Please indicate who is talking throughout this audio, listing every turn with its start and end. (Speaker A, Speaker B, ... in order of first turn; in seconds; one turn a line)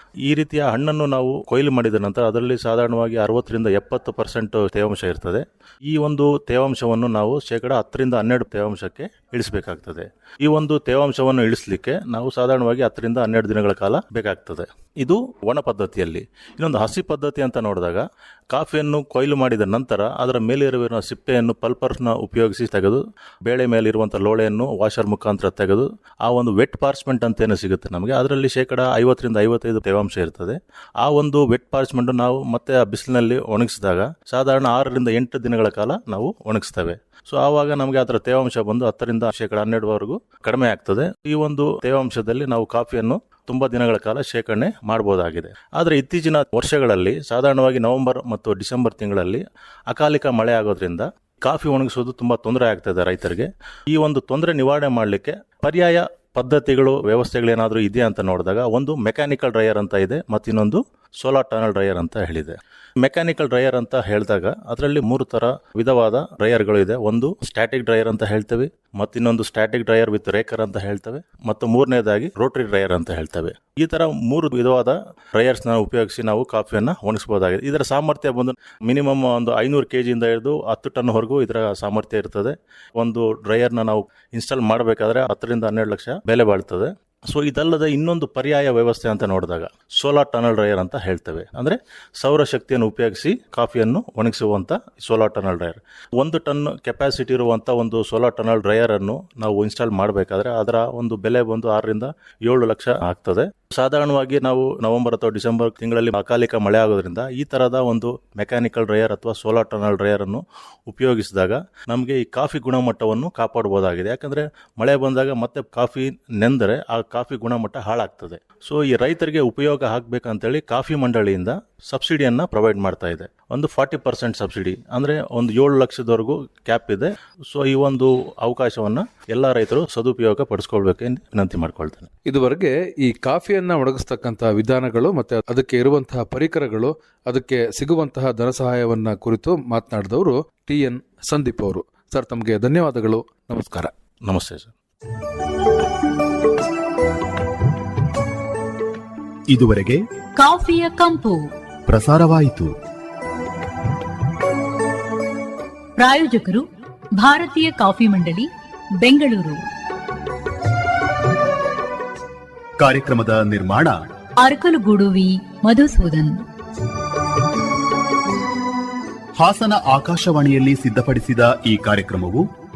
Speaker A: 0.3-132.1
Speaker B: 132.2-143.9
Speaker A: 144.2-144.7
Speaker C: 149.5-150.0
Speaker D: 150.4-151.5
Speaker C: 151.9-152.7
Speaker D: 156.0-156.7
Speaker D: 157.2-158.5
Speaker D: 159.0-159.6
Speaker C: 162.8-163.9
Speaker D: 164.4-166.4
Speaker C: 169.4-172.4